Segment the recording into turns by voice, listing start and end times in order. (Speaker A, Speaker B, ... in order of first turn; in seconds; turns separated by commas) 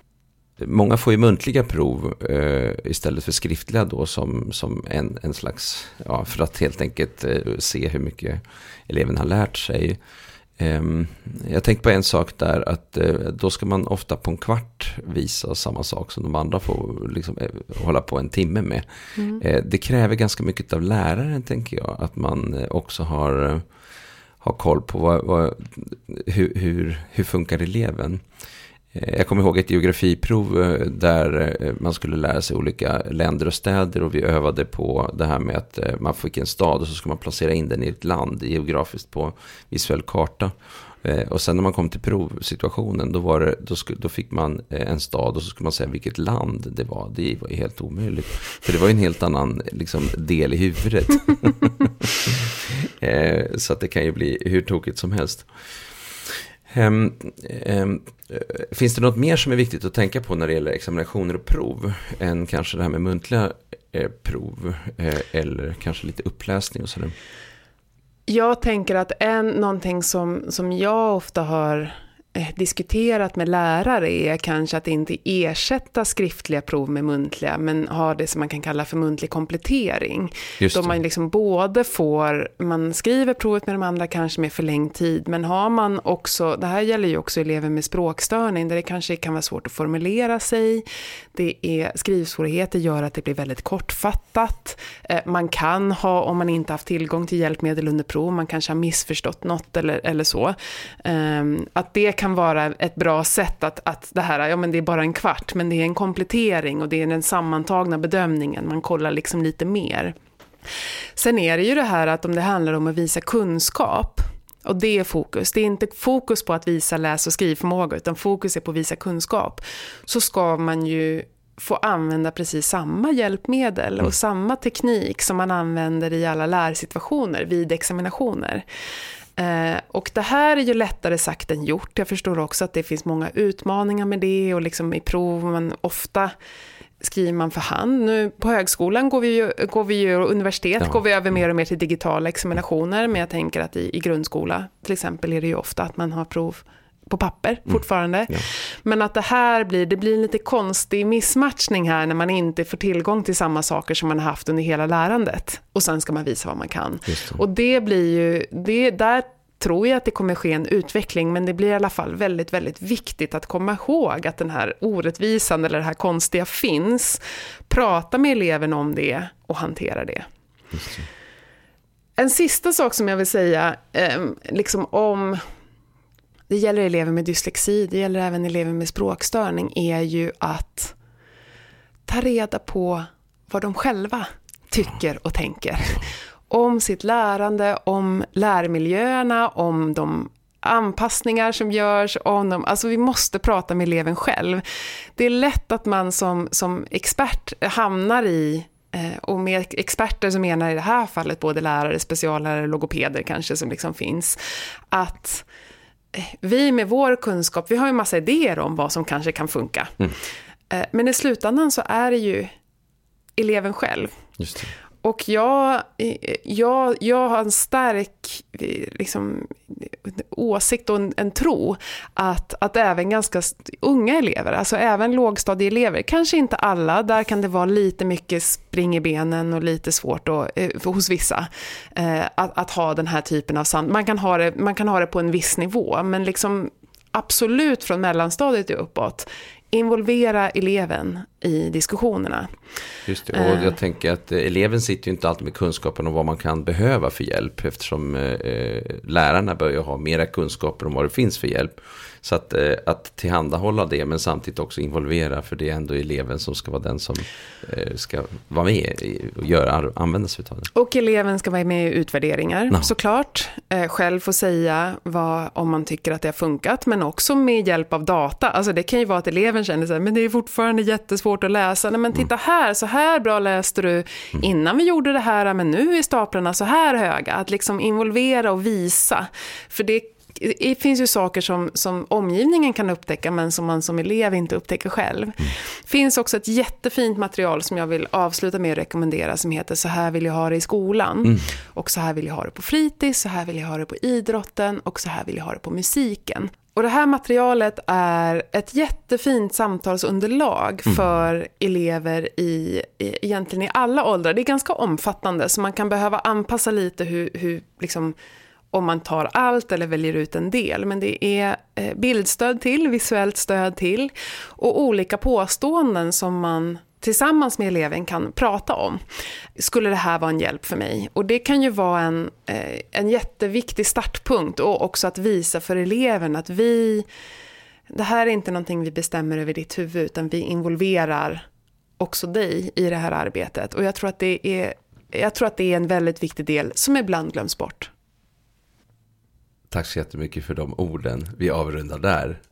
Speaker A: 0.6-10.0, Speaker A: 10.6-23.7, Speaker B: 19.2-19.4, Speaker A: 24.4-28.2, Speaker A: 28.9-67.1, Speaker B: 68.3-110.2, Speaker A: 80.6-80.9, Speaker B: 111.2-128.6, Speaker B: 129.4-136.3, Speaker B: 137.0-170.3, Speaker A: 157.1-157.4, Speaker A: 170.7-171.1, Speaker B: 172.2-175.4, Speaker B: 176.5-180.9, Speaker B: 182.1-194.6, Speaker B: 195.2-204.4, Speaker B: 204.9-205.5, Speaker B: 206.1-210.1, Speaker B: 210.7-212.5, Speaker B: 213.4-214.2, Speaker A: 214.4-214.7, Speaker B: 215.0-242.5, Speaker A: 243.1-260.7, Speaker B: 243.3-243.7, Speaker B: 260.7-308.1, Speaker B: 308.7-319.0, Speaker B: 319.6-327.1, Speaker B: 327.9-331.4, Speaker B: 332.0-337.9, Speaker A: 339.7-342.4